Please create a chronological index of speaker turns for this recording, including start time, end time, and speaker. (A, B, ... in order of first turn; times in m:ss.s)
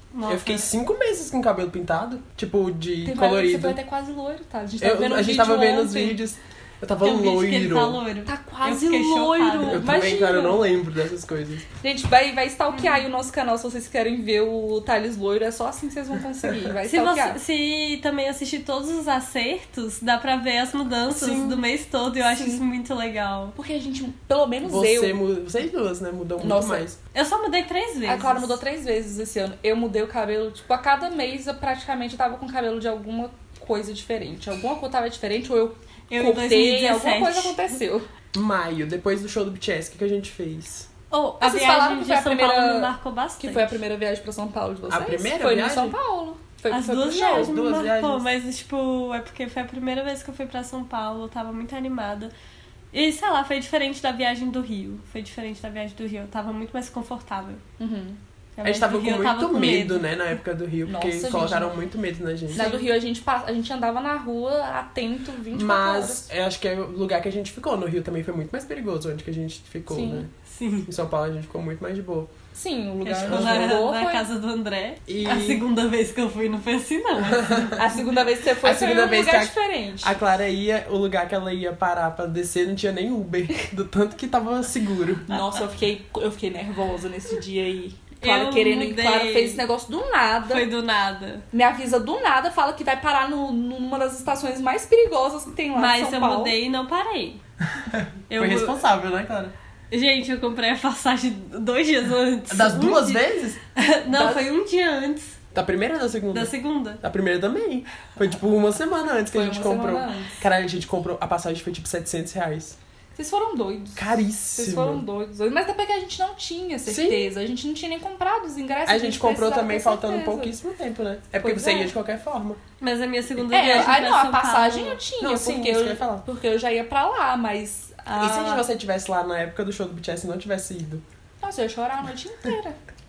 0:00.1-0:00.7 A
0:00.3-0:03.8 B
0:03.0-0:06.2 C
0:04.8-0:08.0 B
0:07.0-0:10.1 A
0:08.2-0:10.7 C
0:09.6-0:11.6 B
0:11.8-0:17.4 C
0:12.7-0:13.0 A
0:16.8-0:23.6 A
0:21.1-0:21.6 B
0:22.2-0:22.6 C
0:23.6-0:25.2 C
0:24.6-0:27.0 B
0:26.4-0:26.8 C
0:27.1-0:28.6 A
0:28.1-0:38.1 C
0:36.1-0:37.8 A
0:38.3-0:40.9 B
0:41.1-0:43.8 A
0:41.4-0:47.5 C
0:44.9-0:46.0 B
0:46.7-0:52.3 A
0:47.3-0:48.3 B
0:52.9-0:57.6 A
0:57.8-0:58.2 C
0:58.6-1:00.0 A
0:58.6-1:02.7 B
1:00.8-1:01.7 C
1:02.5-1:06.3 C
1:02.6-1:02.9 A
1:05.5-1:10.3 B
1:09.9-1:10.3 C
1:10.5-1:10.9 A
1:10.9-1:12.3 B
1:12.6-1:14.2 C
1:13.0-1:17.7 A
1:13.2-1:13.8 B
1:15.1-1:15.6 B
1:17.3-1:17.8 B
1:17.7-1:20.2 C
1:18.6-1:25.3 B
1:25.3-1:30.7 C
1:28.2-1:29.6 A
1:30.5-1:31.4 A
1:31.5-1:36.5 C
1:35.7-1:37.4 A
1:37.7-1:39.5 B
1:38.3-1:38.8 A
1:39.9-1:43.2 A
1:42.5-1:43.6 B
1:43.8-1:45.4 A
1:44.1-1:44.5 C
1:45.5-1:52.8 B
1:46.3-1:47.0 A
1:49.3-1:50.4 C
1:53.2-2:00.5 C
1:54.0-1:55.0 B
1:56.9-1:57.3 B
1:58.9-2:02.6 B
2:01.4-2:01.9 C
2:02.8-2:05.0 A
2:03.5-2:08.6 C
2:05.2-2:06.3 B
2:08.2-2:11.0 B
2:11.4-2:12.8 C